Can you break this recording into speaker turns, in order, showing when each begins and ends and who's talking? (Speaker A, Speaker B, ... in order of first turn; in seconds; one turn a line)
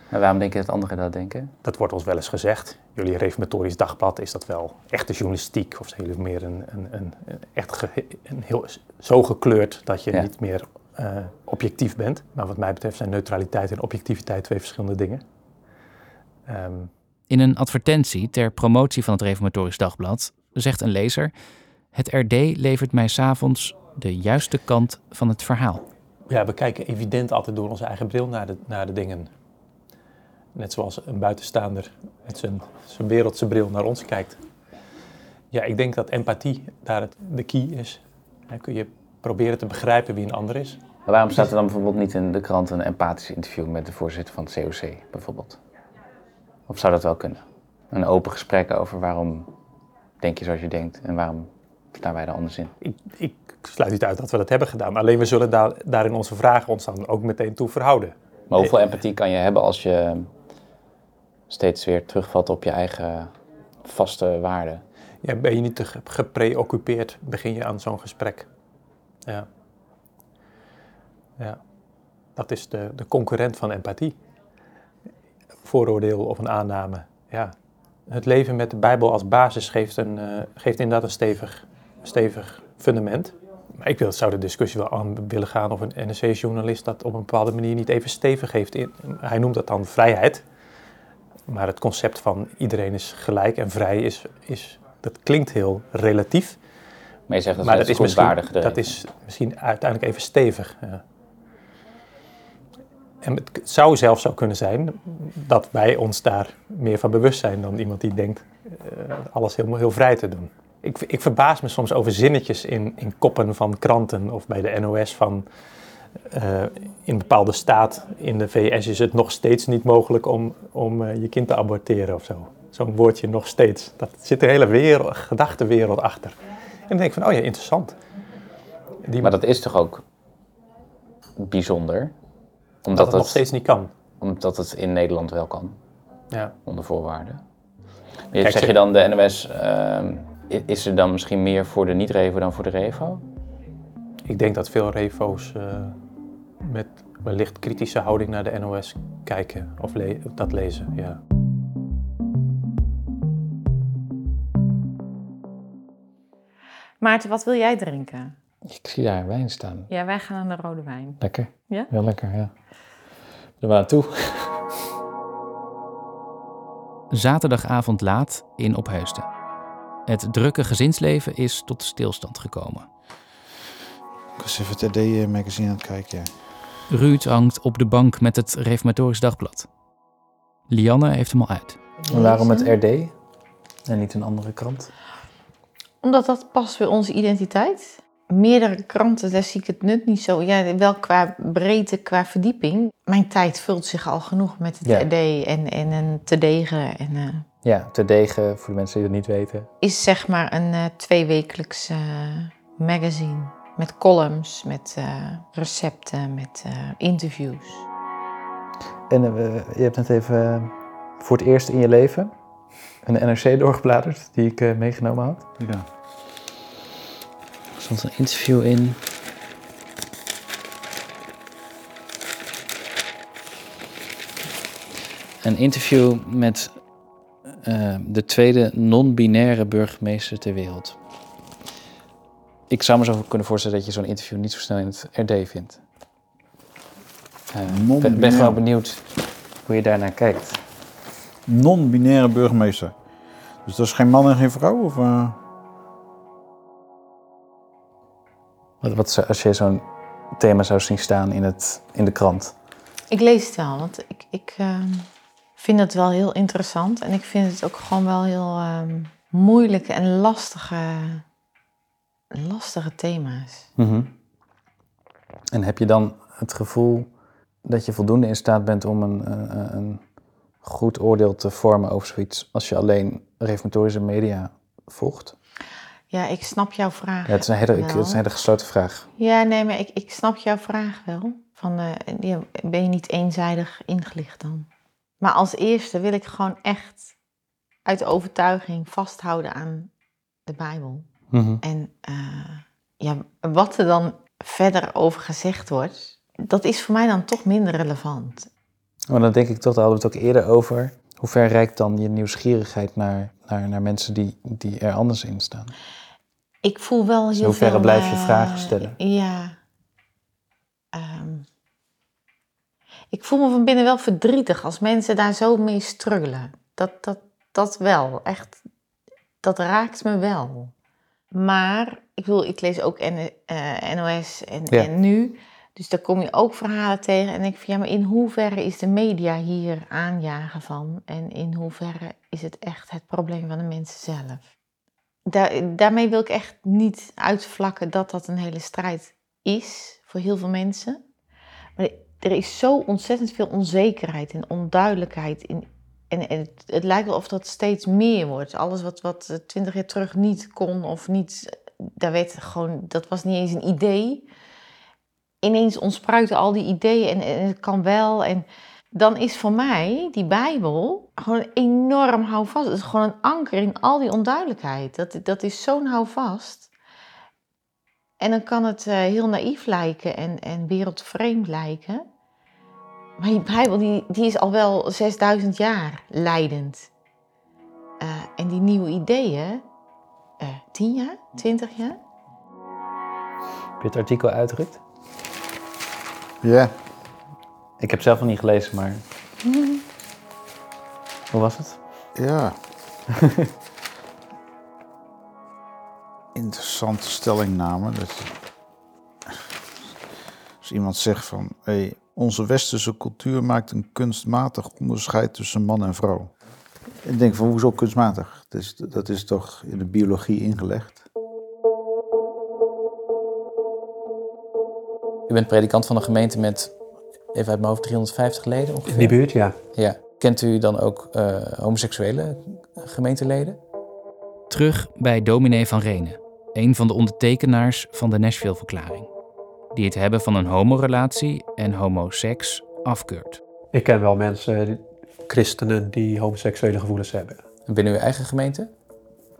Speaker A: 0.1-1.5
Speaker B: 1.6-15.2
Speaker B: 16.5-16.9
Speaker C: 17.3-21.3
Speaker C: 21.9-25.9
Speaker B: 26.3-29.3
Speaker B: 30.6-34.4
Speaker B: 35.5-40.8
Speaker A: 41.1-45.6
Speaker A: 46.7-49.5
Speaker A: 50.2-52.7
Speaker B: 52.8-58.8
Speaker A: 58.5-60.3
Speaker A: 61.5-64.8
Speaker B: 65.2-68.5
Speaker B: 69.2-69.5
Speaker B: 71.4-71.7
Speaker B: 72.3-74.2
Speaker B: 75.6-90.4
Speaker B: 91.5-96.6
Speaker A: 97.3-98.8
Speaker B: 97.6-101.0
Speaker B: 103.2-115.5
Speaker B: 116.3-126.4
Speaker B: 126.9-128.0
Speaker B: 129.0-129.3
Speaker A: 129.2-130.0
Speaker A: 131.4-132.1
Speaker A: 132.8-133.4
Speaker B: 132.9-133.9
Speaker A: 134.2-135.8
Speaker A: 136.7-137.4
Speaker A: 138.3-143.2
Speaker B: 138.4-138.8
Speaker B: 144.2-146.0
Speaker B: 146.6-151.2
Speaker D: 157.0-158.4
Speaker A: 158.7-159.9
Speaker D: 159.9-161.9
Speaker A: 161.2-162.5
Speaker A: 163.6-164.6
Speaker C: 167.1-169.3
Speaker C: 170.1-172.9
Speaker E: 174.4-176.3
Speaker C: 176.9-179.7
Speaker C: 180.7-181.8
Speaker D: 182.1-182.7
Speaker A: 182.1-183.1
Speaker A: 183.9-184.9
Speaker D: 186.0-197.4
Speaker A: 197.6-199.7
Speaker D: 199.8-207.9
Speaker A: 209.1-212.3
Speaker A: 213.0-215.5
Speaker E: 215.6-215.8
Speaker A: 217.8-219.0
Speaker A: 225.4-226.8
Speaker A: 227.6-231.0
Speaker A: 232.7-235.8
Speaker A: 237.5-239.0
Speaker E: 237.6-238.6
Speaker A: 239.6-240.6
Speaker E: 241.5-243.0
Speaker E: 243.6-245.4
Speaker A: 248.8-252.5
Speaker D: 253.1-261.2
Speaker D: 262.3-263.7
Speaker A: 263.8-264.1
Speaker A: 265.5-267.1
Speaker A: 267.6-270.0
Speaker A: 270.6-275.3
Speaker D: 276.1-278.2
Speaker A: 277.3-279.1
Speaker D: 279.2-284.7
Speaker D: 285.2-287.1
Speaker D: 287.9-289.9
Speaker D: 290.5-291.1
Speaker A: 291.3-291.6
Speaker D: 291.6-298.5
Speaker A: 299.1-305.7
Speaker D: 306.6-309.6
Speaker A: 307.4-309.0
Speaker D: 310.9-311.5
Speaker D: 313.1-318.6
Speaker D: 319.4-320.7
Speaker D: 321.3-334.5
Speaker D: 335.3-341.0
Speaker D: 341.8-354.3
Speaker D: 355.4-366.7
Speaker D: 368.2-372.1
Speaker D: 373.2-376.9
Speaker D: 378.0-379.6
Speaker D: 380.4-382.0
Speaker A: 383.8-384.8
Speaker E: 386.4-386.7
Speaker A: 387.8-389.0
Speaker A: 391.3-391.8
Speaker E: 392.1-392.6
Speaker E: 396.4-398.3
Speaker E: 400.6-406.3
Speaker E: 407.0-411.0
Speaker A: 415.3-416.7
Speaker A: 417.4-419.1
Speaker F: 418.9-419.6
Speaker A: 419.8-423.6
Speaker C: 424.5-429.1
Speaker C: 429.7-433.4
Speaker F: 433.7-437.4